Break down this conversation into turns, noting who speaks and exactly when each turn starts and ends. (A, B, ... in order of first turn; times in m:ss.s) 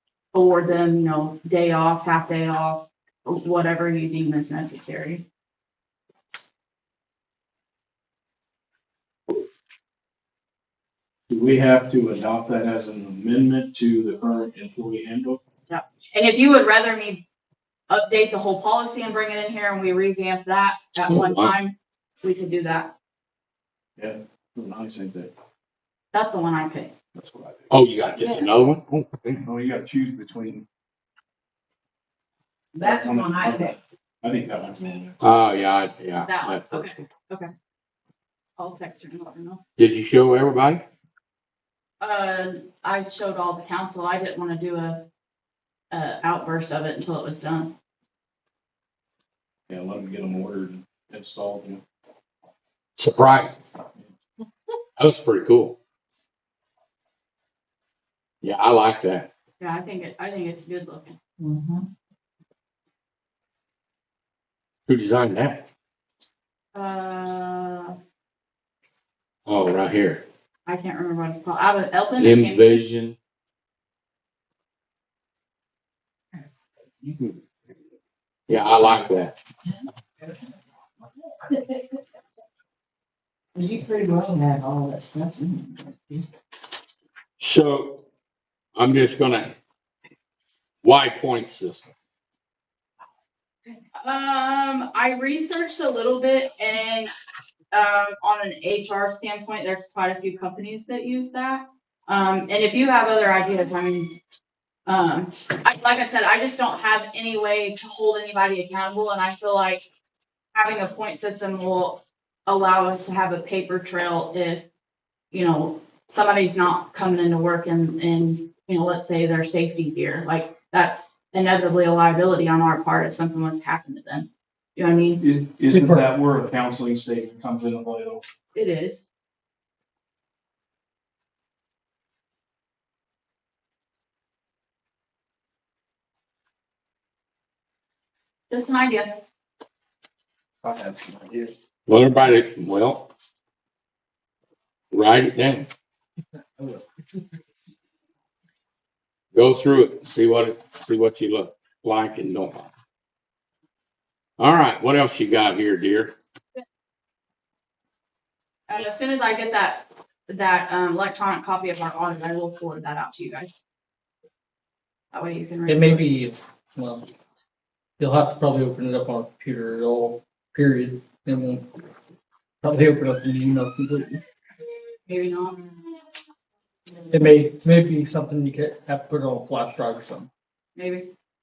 0:00.3-0:05.2 A
0:11.3-0:15.4 B
0:15.7-0:17.2 A
0:17.9-0:22.9 A
0:21.1-0:21.5 C
0:24.0-0:25.3 B
0:26.1-0:26.9 A
0:27.2-0:27.7 B
0:27.7-0:29.5 C
0:29.4-0:30.6 B
0:32.7-0:33.8 D
0:32.8-0:35.2 B
0:35.2-0:37.1 C
0:36.2-0:37.5 A
0:38.6-0:39.6 A
0:39.8-0:40.8 C
0:42.0-0:45.0 A
0:45.9-0:47.7 A
0:49.7-0:51.8 B
0:53.0-0:53.6 C
0:55.0-0:55.8 C
0:58.4-0:59.3 C
0:59.6-1:01.2 A
1:01.4-1:01.8 D
1:04.9-1:05.6 C
1:06.7-1:08.0 A
1:09.5-1:10.2 C
1:10.6-1:12.8 A
1:12.2-1:13.2 C
1:18.5-1:19.3 C
1:21.4-1:21.8 D
1:23.6-1:26.2 D
1:27.4-1:28.0 C
1:28.8-1:29.5 C
1:30.8-1:31.9 C
1:34.0-1:37.1 A
1:37.7-1:44.2 A
1:44.8-1:49.8 A
1:50.5-1:54.7 A
1:55.3-2:05.2 A
2:05.2-2:08.2 B
2:05.7-2:06.0 E
2:08.5-2:09.0 A
2:18.5-2:19.2 A
2:20.6-2:21.6 B
2:21.9-2:23.1 C
2:24.9-2:25.7 C
2:29.3-2:32.7 C
2:34.4-2:36.2 C
2:38.7-2:43.5 A
2:45.1-2:46.1 A
2:45.6-2:47.1 E
2:48.0-2:51.7 E
2:52.6-2:54.2 E
2:55.1-2:55.6 A
2:57.1-3:00.3 E
3:00.8-3:01.1 A